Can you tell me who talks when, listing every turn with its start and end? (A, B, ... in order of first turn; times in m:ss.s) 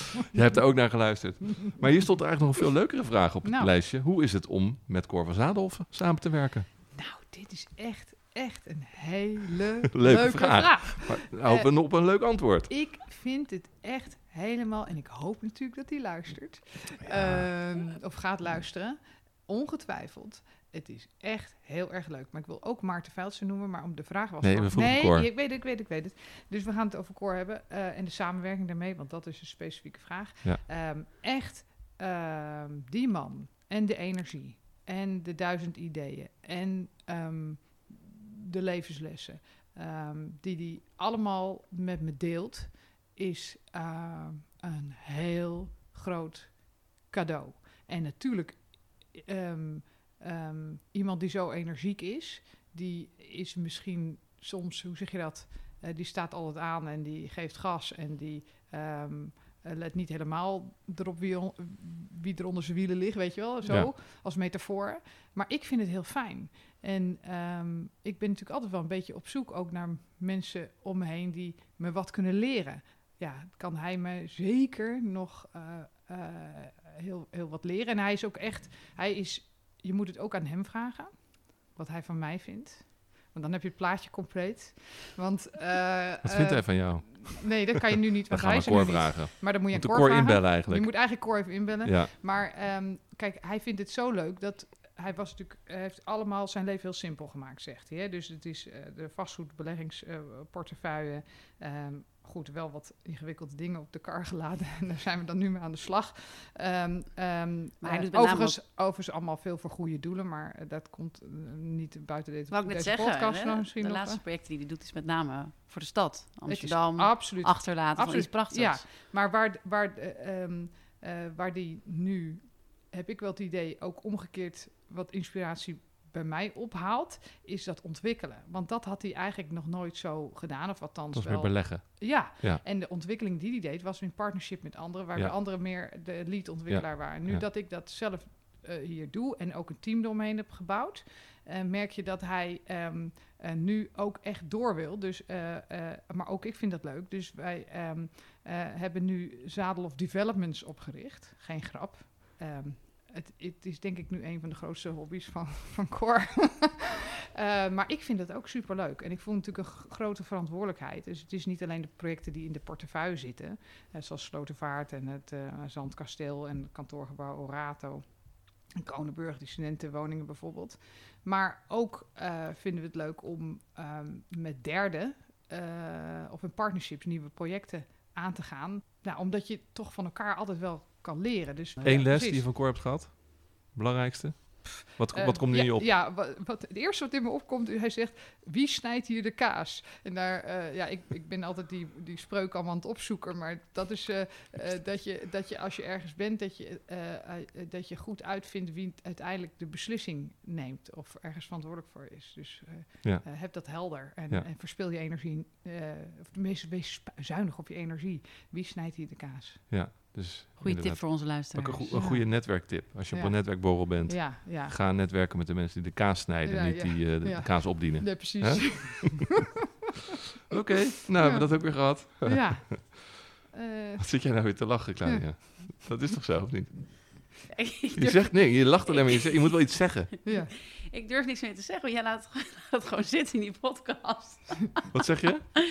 0:00.3-0:06.7 A
0:03.4-0:03.7 B
0:06.9-1:54.2 B
0:10.0-0:12.7 A
0:17.1-0:17.4 A
0:24.4-0:25.3 A
1:03.6-1:03.9 A
1:26.2-1:27.6 A
1:28.3-1:32.1 A
1:47.8-1:48.6 C
1:52.5-1:58.9 C
1:56.5-3:02.5 B
2:11.1-2:12.6 A
2:15.2-2:15.9 A
2:16.7-2:17.5 A
3:01.8-3:05.9 A
3:05.0-3:29.7 B
3:23.0-3:24.5 A
3:29.7-3:39.4 A
3:30.6-3:32.0 C
3:31.9-3:34.8 B
3:36.4-3:39.3 B
3:40.5-3:43.0 A
3:41.2-3:45.3 B
3:44.0-3:50.2 A
3:47.6-3:55.0 C
3:50.2-3:50.6 B
3:54.9-3:55.5 A